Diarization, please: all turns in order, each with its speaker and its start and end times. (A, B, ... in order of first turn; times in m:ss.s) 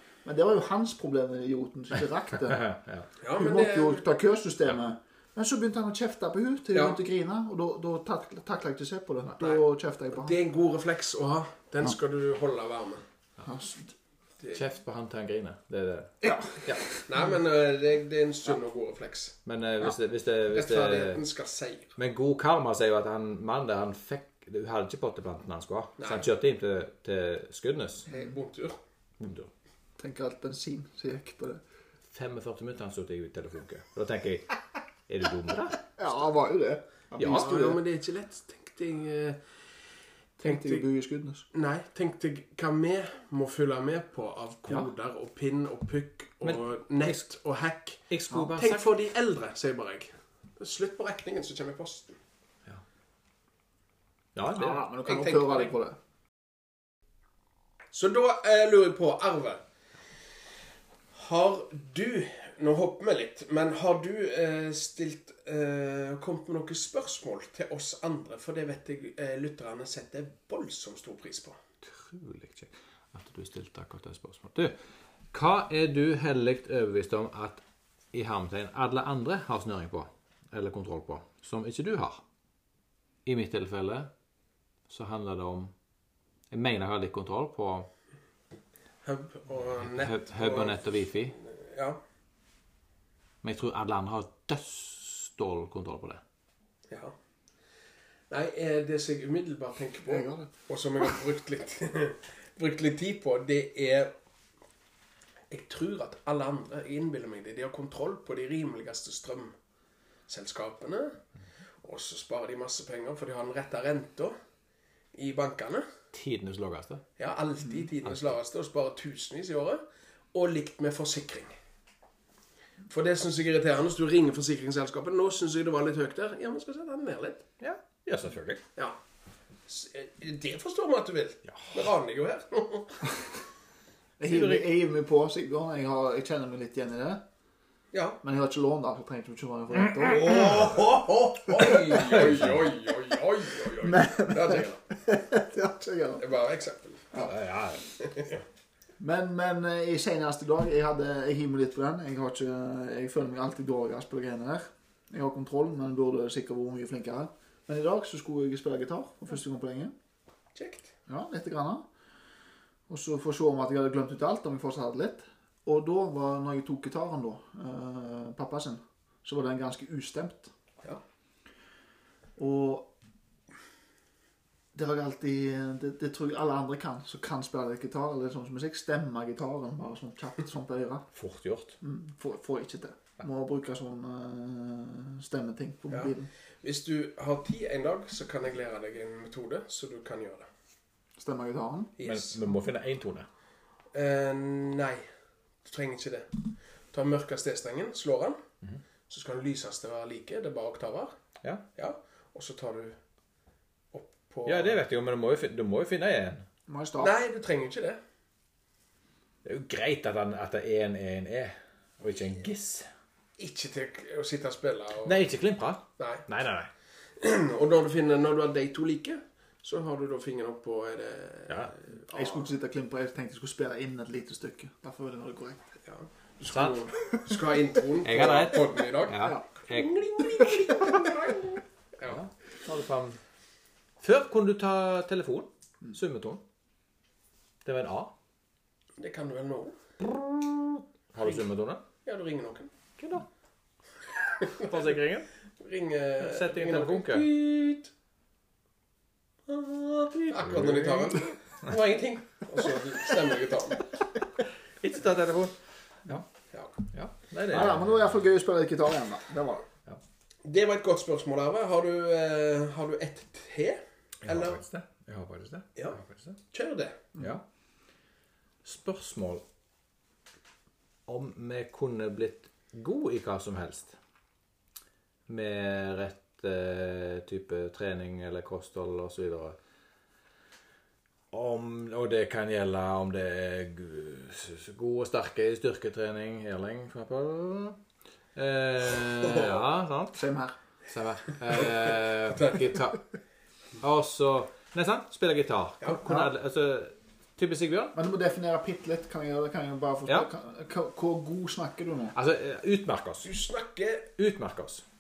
0:00.2-0:02.7 A
0:02.5-0:03.1 B
0:03.2-0:04.0 C
0:03.3-0:10.4 A
0:10.1-0:13.0 C
0:13.4-0:13.9 A
0:14.5-0:16.9 B
0:16.2-0:17.0 A
0:17.1-0:19.4 C
0:19.4-0:21.2 B
0:20.5-0:21.9 C
0:22.0-0:28.1 B
0:26.0-0:26.3 C
0:28.1-0:28.8 C
0:29.2-0:29.5 B
0:30.0-0:31.6 A
0:32.1-0:35.9 B
0:36.0-0:37.8 A
0:37.2-0:37.5 B
0:37.2-0:39.4 C
0:40.4-0:41.4 A
0:40.4-0:40.8 C
0:41.5-0:52.2 C
0:46.4-0:47.2 B
0:48.1-0:48.9 B
0:54.4-0:54.9 B
0:54.5-0:56.0 A
0:55.1-0:55.7 C
0:57.9-0:59.6 C
1:01.1-1:11.6 C
1:11.8-1:14.8 B
1:15.3-1:17.6 B
1:18.1-1:22.2 B
1:23.2-1:24.1 B
1:24.9-1:25.7 B
1:26.5-1:27.9 B
1:29.0-1:30.8 C
1:29.9-1:31.4 B
1:31.4-1:32.0 C
1:33.4-1:36.2 B
1:36.9-1:37.2 C
1:38.3-1:44.1 C
1:40.1-1:40.5 A
1:45.5-1:49.6 C
1:50.3-1:51.2 C
1:51.8-1:54.4 C
1:55.1-1:55.9 C
1:56.1-1:57.0 B
1:57.2-2:01.6 C
1:58.1-1:58.3 B
2:02.9-2:07.5 C
2:07.6-2:08.6 B
2:09.7-2:13.0 C
2:11.5-2:11.8 B
2:14.2-2:17.2 A
2:14.2-2:14.7 B
2:17.9-2:18.2 C
2:18.2-2:20.6 A
2:20.1-2:24.9 C
2:20.2-2:20.8 B
2:21.6-2:22.7 B
2:23.8-2:26.2 A
2:26.2-2:27.1 C
2:27.2-2:27.9 B
2:28.0-2:28.4 C
2:29.0-2:39.9 A
2:40.6-2:40.9 C
2:41.1-2:41.8 A
2:42.9-2:50.5 A
2:52.4-2:52.9 A
2:54.7-3:01.1 A
3:01.1-3:01.8 B
3:01.8-3:06.3 A
3:05.9-3:10.5 C
3:11.2-3:11.9 A
3:12.0-3:12.4 C
3:12.0-3:13.3 B
3:13.9-3:15.1 C
3:15.6-3:16.3 C
3:16.9-3:18.4 C
3:19.1-3:21.1 C
3:21.8-3:23.0 C
3:23.9-3:24.8 C
3:24.5-3:26.4 B
3:26.7-3:27.1 A
3:27.0-3:28.0 C
3:29.4-3:32.9 B
3:33.4-3:35.3 C
3:35.0-3:36.7 B
3:36.0-3:36.2 C
3:37.2-3:42.5 C
3:42.1-3:45.7 A
3:45.8-3:52.2 C
3:46.5-3:46.8 B
3:48.0-3:50.5 B
3:52.1-3:53.2 B
3:54.0-3:56.4 B
3:57.6-3:58.1 B
3:59.0-3:59.8 C
4:00.1-4:01.8 B
4:02.0-4:02.7 C
4:03.0-4:03.3 B
4:04.4-4:04.8 C
4:04.5-4:05.3 B
4:05.6-4:07.9 C
4:06.2-4:07.3 B
4:09.5-4:13.9 C
4:10.2-4:11.3 B
4:14.8-4:16.2 B
4:16.9-4:18.0 B
4:17.5-4:19.7 A
4:20.4-4:24.6 C
4:24.2-4:26.4 B
4:26.5-4:27.0 C
4:27.2-4:27.4 B
4:28.6-4:29.4 B
4:31.1-4:34.0 B
4:35.3-4:39.6 B
4:41.3-4:47.8 B
4:48.4-4:50.2 B
4:49.2-4:49.6 C
4:50.1-4:50.6 A
4:50.9-4:53.0 B
4:52.3-4:52.8 C
4:53.8-4:58.0 B
4:57.9-5:02.2 A
5:02.2-5:03.3 B
5:03.2-5:04.1 C
5:04.2-5:04.8 B